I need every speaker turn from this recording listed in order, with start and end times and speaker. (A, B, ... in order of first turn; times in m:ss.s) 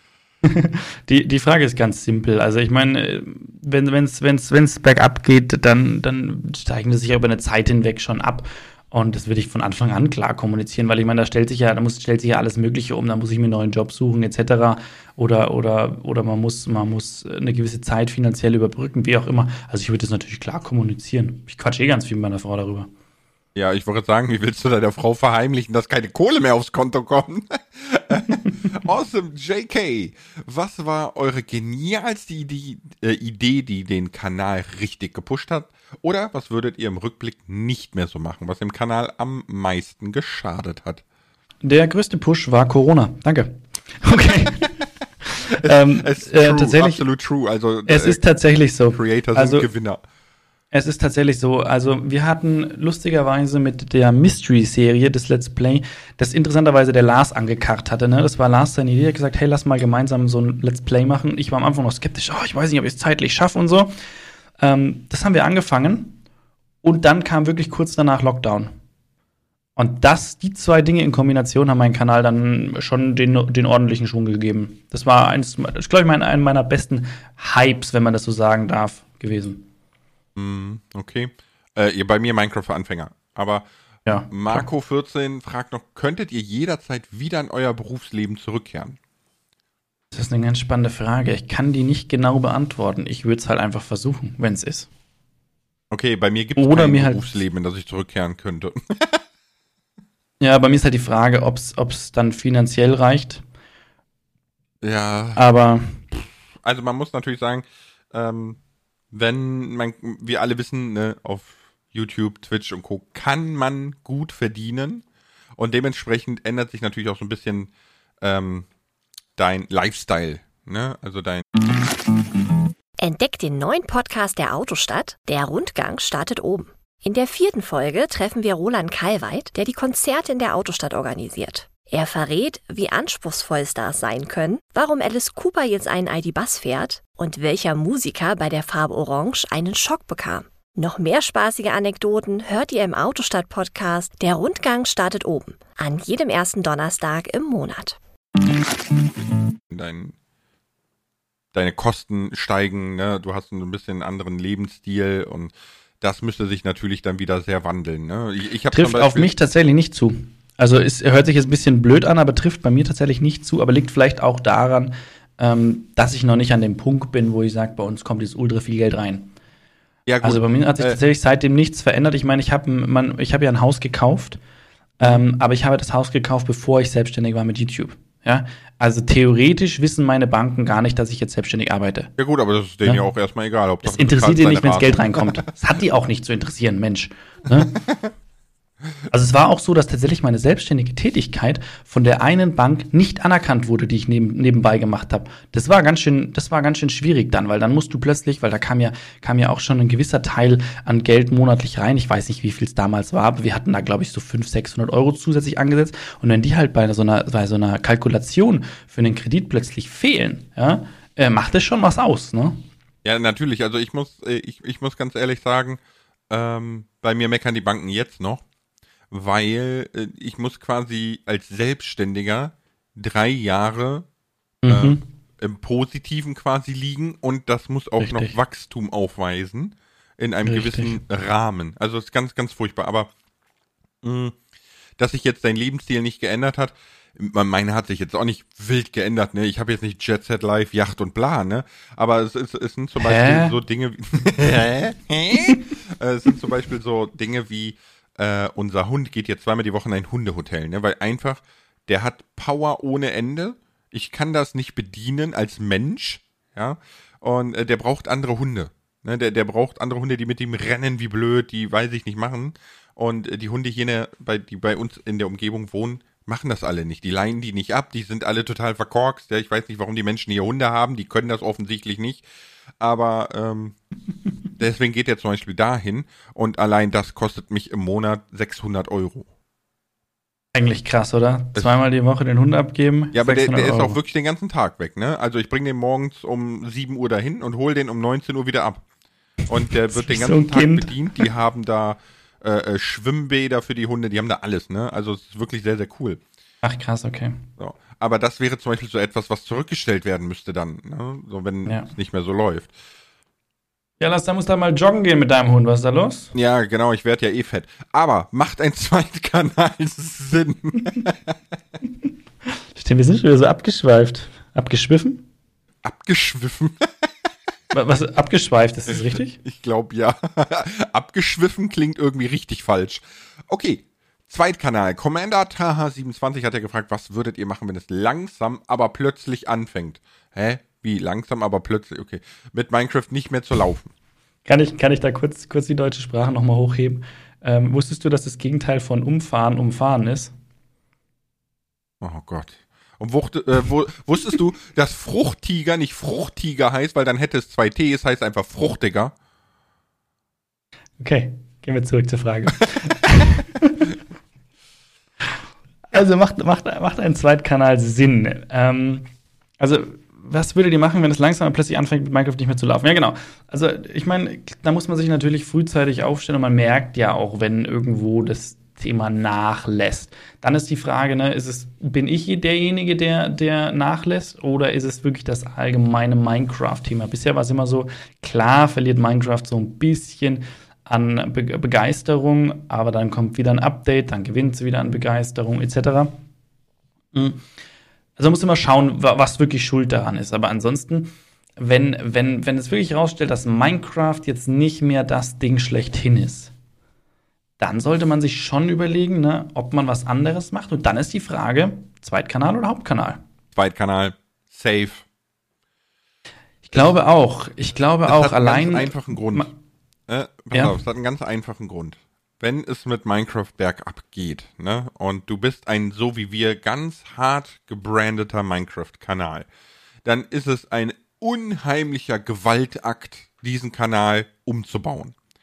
0:00.4-0:22.9 A
0:23.6-0:41.0 B
0:41.6-0:44.8 A
0:45.3-0:47.0 A
0:45.5-0:48.2 B
0:47.9-0:49.7 A
0:48.9-0:50.0 B
0:50.7-1:03.9 A
1:04.6-1:06.2 A
1:06.8-1:08.7 A
1:09.8-1:19.7 A
1:20.4-1:23.7 B
1:24.1-1:24.7 A
1:24.3-1:29.0 B
1:30.1-1:34.9 A
1:35.9-1:39.2 B
1:36.6-1:37.3 A
1:40.4-1:43.4 A
1:44.8-1:45.4 B
1:45.4-1:46.0 A
1:46.6-1:48.6 B
1:49.1-1:55.0 B
1:55.6-1:57.7 B
1:58.2-1:58.7 B
1:59.4-2:01.5 B
2:03.0-2:28.0 C
2:29.7-2:30.1 B
2:31.5-2:39.3 B
2:38.7-2:49.3 A
2:50.1-2:51.0 B
2:50.2-2:54.4 A
2:55.0-3:02.1 A
3:02.2-3:05.5 B
3:03.8-3:07.8 A
3:09.1-3:32.6 A
3:33.0-3:38.4 B
3:39.1-3:44.1 B
3:44.6-3:45.0 A
3:44.7-3:53.1 B
3:48.0-3:48.4 A
3:50.5-3:51.0 A
3:54.0-3:54.4 B
3:55.0-4:32.2 B
4:03.0-4:03.6 A
4:32.8-4:33.8 B
4:34.6-4:39.3 B
4:40.5-4:44.0 A
4:43.1-4:48.8 B
4:49.5-4:56.2 B
4:49.9-4:51.2 A
4:56.6-4:57.4 A
4:57.6-5:02.7 B
5:04.0-5:06.3 A
5:06.3-5:11.4 B
5:12.8-5:15.2 A
5:15.8-5:17.1 B
5:17.7-5:19.4 A
5:19.4-5:33.9 B
5:34.4-5:40.3 A
5:42.0-5:49.1 B
5:51.0-5:53.9 A
5:55.9-5:59.1 A
5:59.6-6:26.2 A
6:27.1-6:27.4 A
6:28.2-6:36.5 A
6:37.6-6:43.2 A
6:43.5-6:45.0 B
6:46.6-6:49.5 A
6:48.1-6:49.5 B
6:50.1-6:59.5 B
6:50.5-6:50.8 A
7:00.0-7:05.2 B